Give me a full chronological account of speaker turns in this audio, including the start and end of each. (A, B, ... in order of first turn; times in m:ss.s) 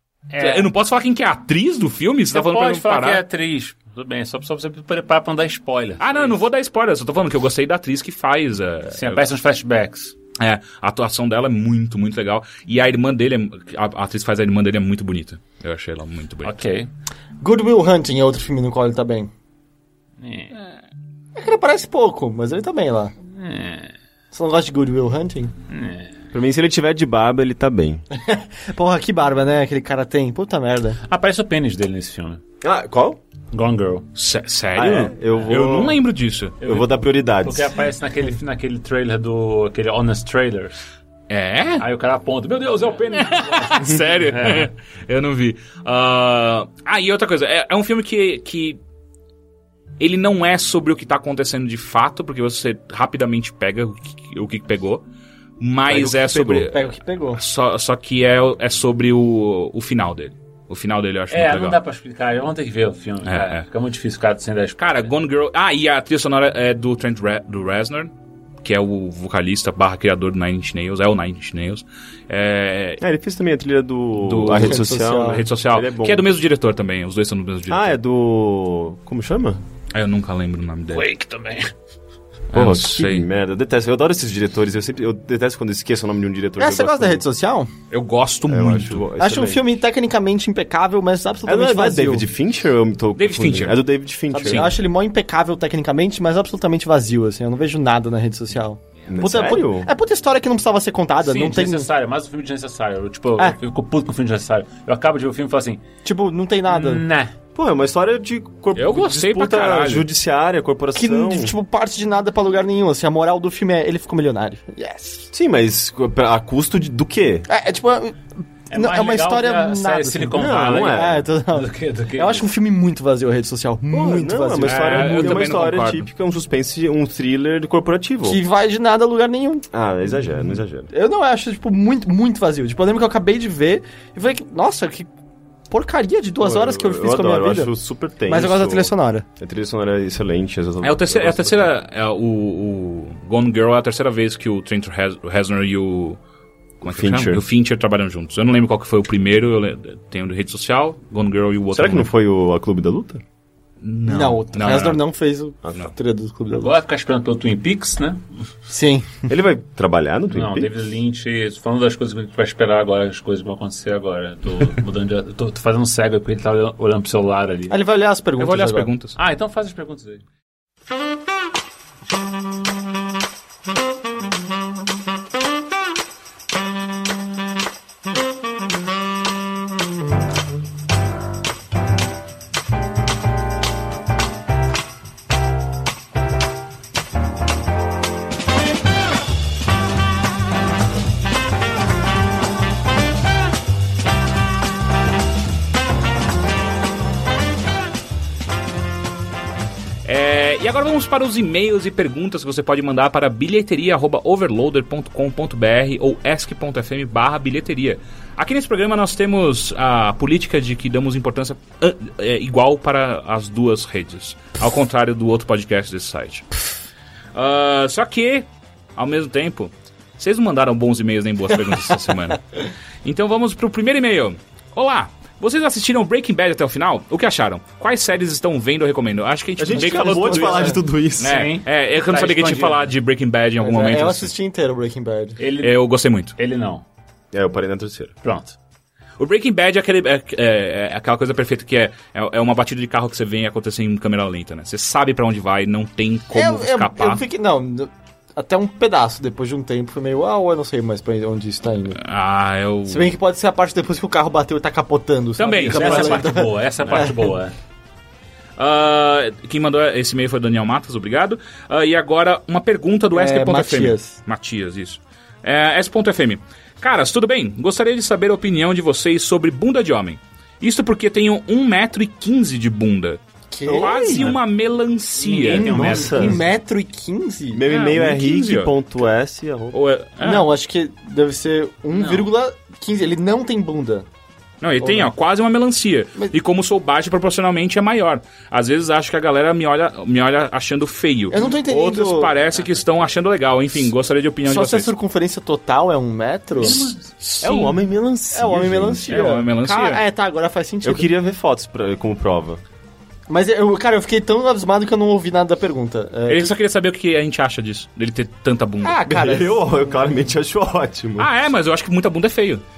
0:00.3-0:00.7 A
0:00.4-0:03.2 B
0:02.3-0:06.4 A
0:06.0-0:09.3 B
0:08.9-0:10.2 A
0:10.4-0:16.6 B
0:16.4-0:16.9 A
0:17.4-0:19.3 C
0:20.2-0:20.6 A
0:21.4-0:23.1 C
0:23.3-0:24.0 A
0:24.3-0:25.5 C
0:25.7-0:26.2 A
0:26.3-0:28.0 D
0:28.2-0:31.0 C
0:31.0-0:32.4 A
0:32.6-0:33.2 D
0:33.5-0:34.1 A
0:34.2-0:36.6 B
0:34.7-0:36.0 D
0:36.6-0:36.9 A
0:36.6-0:37.7 D
0:37.4-0:40.7 A
0:41.3-0:41.8 B
0:41.8-0:44.7 A
0:43.2-0:48.8 B
0:50.0-0:55.0 B
0:55.6-1:01.8 B
0:55.9-0:57.4 C
1:01.3-1:05.1 A
1:03.3-1:03.6 B
1:04.8-1:08.1 B
1:08.6-1:13.0 B
1:13.0-1:16.3 D
1:14.2-1:18.0 B
1:14.5-1:15.4 C
1:17.7-1:19.6 D
1:19.9-1:21.1 B
1:20.9-1:21.7 A
1:22.5-1:23.2 B
1:22.5-1:27.2 D
1:26.6-1:27.7 C
1:27.9-1:29.1 B
1:28.5-1:29.6 D
1:29.2-1:32.2 C
1:31.4-1:34.7 D
1:33.2-1:33.8 B
1:34.3-1:41.9 C
1:34.4-1:34.7 B
1:39.1-1:39.9 D
1:41.2-1:45.8 A
1:46.0-1:47.0 C
1:46.7-1:47.4 A
1:47.6-1:51.6 D
1:48.7-1:50.1 B
1:51.0-1:55.3 C
1:55.3-1:57.5 D
1:57.5-2:05.4 C
1:58.7-2:02.5 A
2:00.4-2:01.3 D
2:03.9-2:08.4 D
2:04.6-2:06.1 B
2:08.2-2:09.7 C
2:09.7-2:10.9 D
2:10.9-2:15.1 C
2:15.7-2:17.7 C
2:16.4-2:21.7 D
2:18.3-2:19.3 C
2:20.8-2:26.2 B
2:26.8-2:27.4 D
2:26.8-2:32.1 B
2:31.7-2:33.2 D
2:33.8-2:35.0 B
2:34.0-2:36.7 C
2:35.6-2:35.9 D
2:36.6-2:38.4 A
2:38.7-2:39.2 C
2:39.3-2:40.7 D
2:40.3-2:47.8 A
2:47.7-2:48.9 C
2:48.4-2:49.2 B
2:49.2-2:50.2 A
3:20.0-3:36.5 B
3:37.3-3:42.5 B
3:43.0-3:54.3 B
3:49.6-3:51.4 D
3:49.7-3:50.8 C
3:51.2-3:52.9 A
3:53.6-3:55.4 C
3:55.4-3:55.8 A
3:55.6-3:56.4 B
3:56.4-3:56.9 A
3:57.3-3:58.2 D
3:58.2-3:58.6 A
3:59.2-4:07.2 B
4:06.3-4:12.0 C
4:12.0-4:13.1 B
4:12.9-4:17.3 C
4:15.4-4:16.3 B
4:15.6-4:17.6 A
4:18.6-4:35.7 B
4:23.1-4:24.2 C
4:33.5-4:34.3 C
4:33.7-4:34.4 D
4:35.2-4:36.4 A
4:35.5-4:37.6 C
4:35.5-4:36.4 D
4:37.5-4:39.8 D
4:37.7-4:38.7 B
4:39.7-4:40.5 B
4:40.2-4:44.1 C
4:41.9-4:42.3 B
4:44.6-4:54.9 B
4:44.8-4:45.1 C
4:51.3-4:52.3 C
4:52.5-4:53.1 A
4:54.4-4:56.9 C
4:56.6-4:57.2 A
4:56.6-4:57.8 B
4:57.4-4:59.3 D
4:58.3-5:01.1 C
4:59.1-5:00.0 B
5:00.8-5:02.6 D
5:03.3-5:06.5 C
5:06.3-5:09.0 B
5:08.8-5:10.0 C
5:09.1-5:11.4 D
5:11.2-5:12.6 B